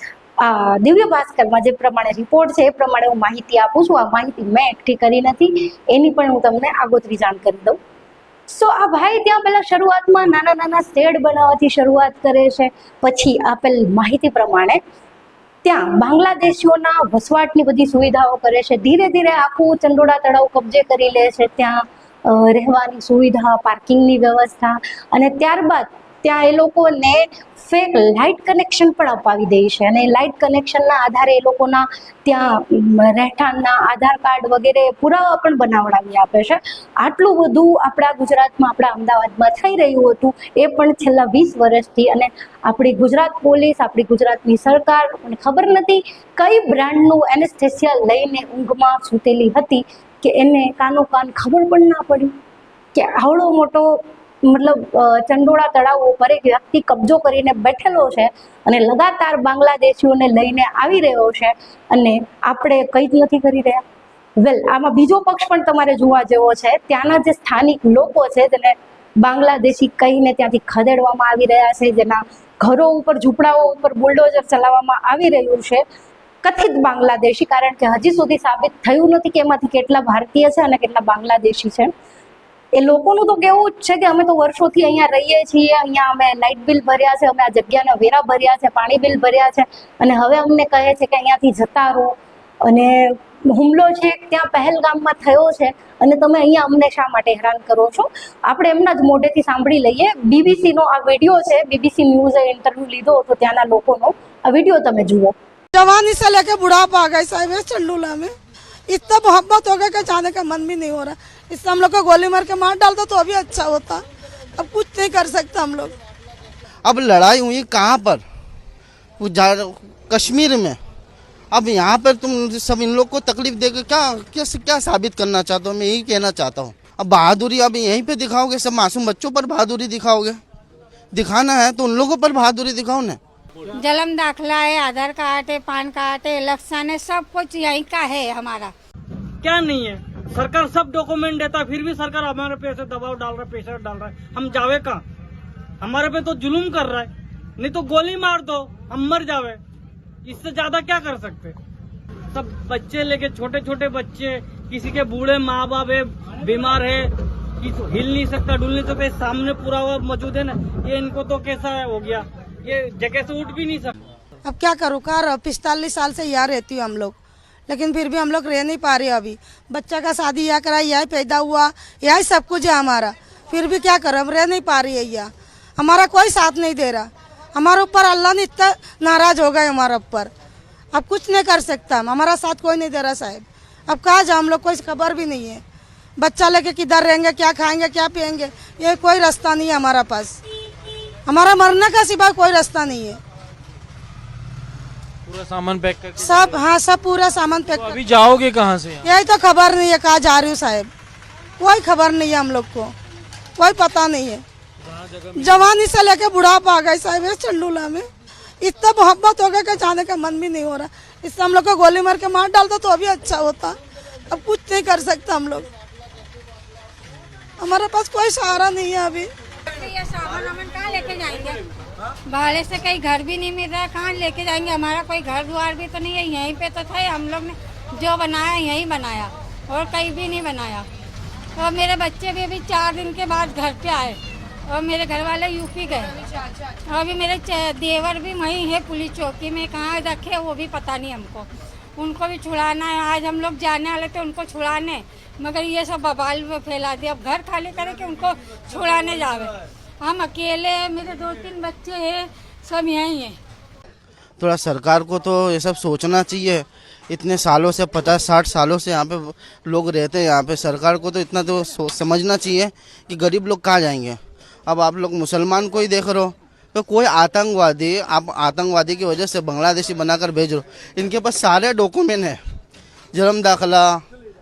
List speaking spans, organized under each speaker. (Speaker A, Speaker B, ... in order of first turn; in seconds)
Speaker A: 0.4-7.8, 8.5-14.8, 15.6-52.3, 52.9-63.8, 64.4-75.8, 76.4-81.9, 82.7-105.3
Speaker B: 105.7-108.3, 108.9-115.9, 164.4-167.2, 167.7-180.3, 180.9-185.6, 186.2-190.4, 191.2-193.2, 196.2-197.9, 199.1-200.9, 201.6-202.9, 203.6-204.4, 205.3-208.1, 208.6-215.7, 217.6-219.3
Speaker C: 116.8-118.2, 119.2-120.8, 121.5-130.4, 131.1-133.2, 254.4-272.4, 273.1-274.0
Speaker D: 133.7-138.7, 219.7-221.6, 222.2-230.8, 231.6-253.4
Speaker E: 139.4-145.0, 145.8-149.6, 150.2-151.6, 152.3-163.9
Speaker F: 195.2-196.6, 197.7-199.1